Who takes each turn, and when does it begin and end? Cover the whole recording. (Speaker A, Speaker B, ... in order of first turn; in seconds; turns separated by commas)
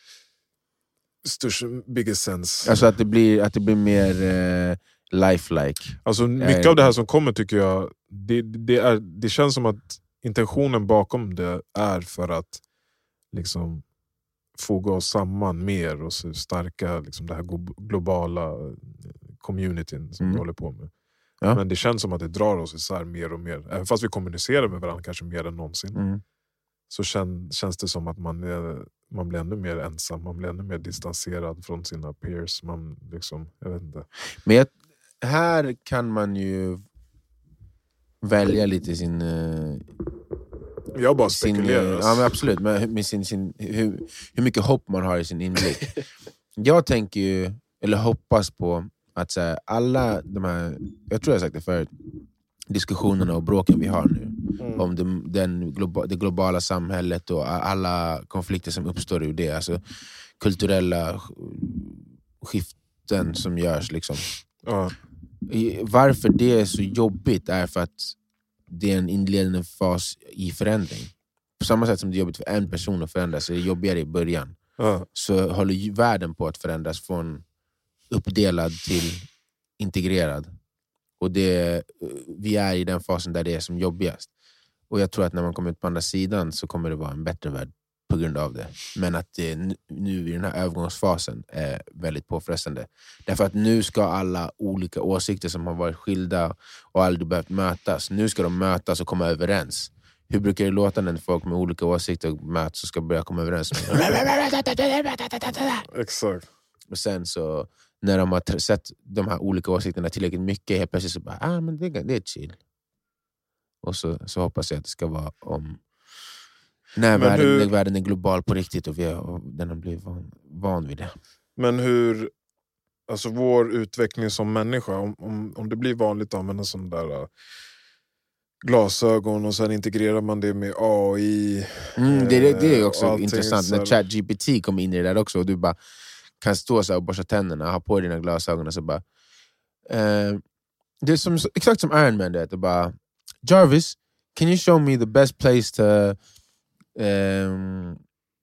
Speaker A: 1.2-2.8, Speaker B: 2.6-6.9, Speaker A: 6.0-12.6, Speaker A: 13.3-13.9, Speaker A: 14.5-20.9, Speaker B: 20.2-20.5, Speaker A: 21.5-26.0, Speaker B: 25.9-26.2, Speaker A: 26.9-34.1, Speaker B: 34.4-36.8, Speaker B: 38.2-39.9, Speaker A: 40.9-42.4, Speaker B: 41.2-45.9, Speaker B: 46.6-51.9, Speaker B: 52.7-59.8, Speaker A: 54.6-54.9, Speaker B: 60.4-64.3, Speaker A: 64.7-65.0, Speaker B: 65.5-68.2, Speaker B: 68.7-77.5, Speaker A: 74.8-75.1, Speaker B: 78.1-80.5, Speaker B: 81.2-84.3, Speaker B: 84.9-105.9, Speaker A: 105.9-106.5, Speaker B: 106.9-112.6, Speaker B: 113.8-115.8, Speaker B: 117.0-121.2, Speaker A: 117.1-117.7, Speaker A: 121.6-122.3, Speaker A: 123.1-127.3, Speaker A: 128.6-133.9, Speaker B: 132.0-135.8, Speaker B: 136.4-139.0, Speaker B: 139.9-140.4, Speaker B: 141.0-146.2, Speaker B: 146.9-148.0